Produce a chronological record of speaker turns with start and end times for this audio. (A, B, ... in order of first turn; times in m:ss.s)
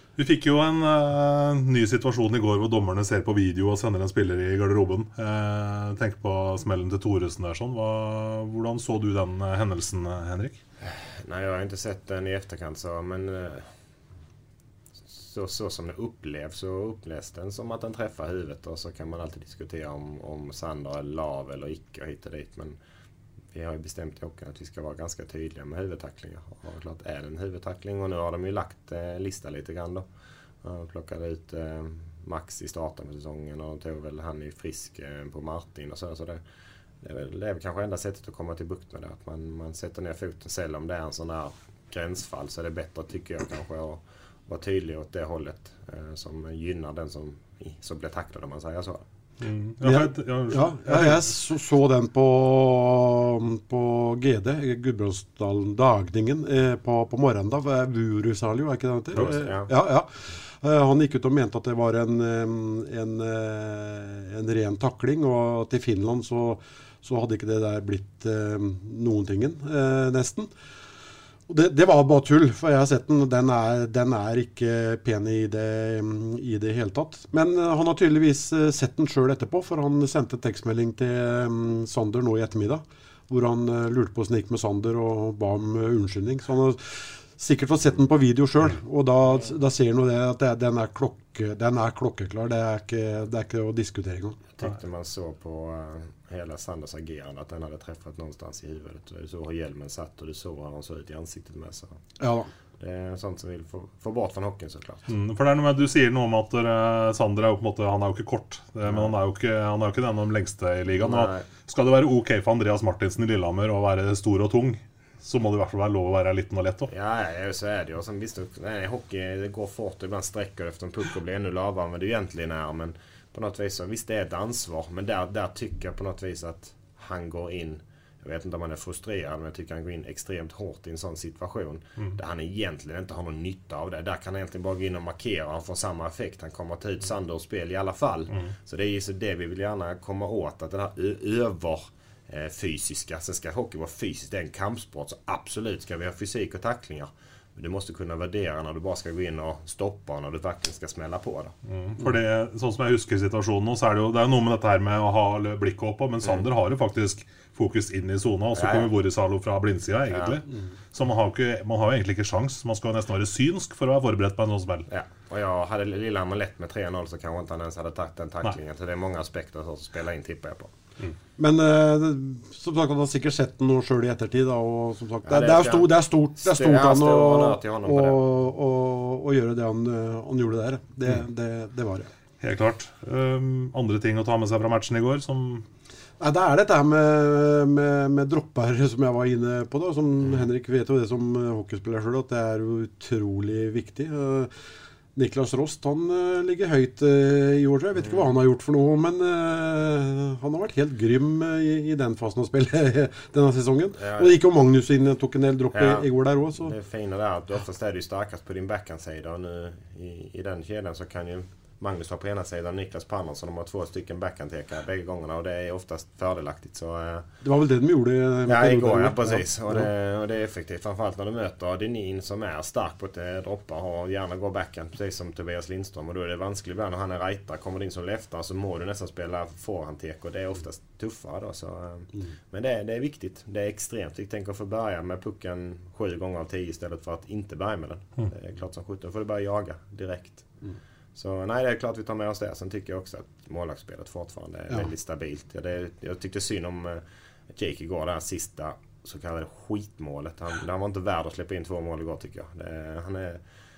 0:00.2-0:10.6 A
0:10.9-0:13.7 B
0:15.1-0:22.8 B
0:23.5-0:30.0 B
0:30.6-0:36.4 B
0:37.0-0:49.0 B
0:49.4-0:51.2 A
0:49.8-1:00.1 C
0:59.2-0:59.7 B
1:00.6-1:10.5 C
1:11.5-1:34.4 C
1:34.6-1:41.9 B
1:42.2-1:42.5 C
1:42.8-1:45.0 B
1:45.1-1:56.9 A
1:48.8-1:49.1 B
1:51.0-1:51.4 B
1:56.9-2:31.5 B
2:31.6-2:44.9 A
2:38.5-2:38.9 B
2:40.1-2:40.4 B
2:44.9-2:50.7 B
2:51.4-3:02.1 C
2:55.3-2:58.2 B
3:02.4-3:05.6 A
3:06.2-3:14.5 C
3:15.2-3:26.7 C
3:24.0-3:24.4 B
3:25.7-3:37.3 B
3:37.4-3:39.9 C
3:38.5-4:00.5 B
4:01.1-4:13.4 B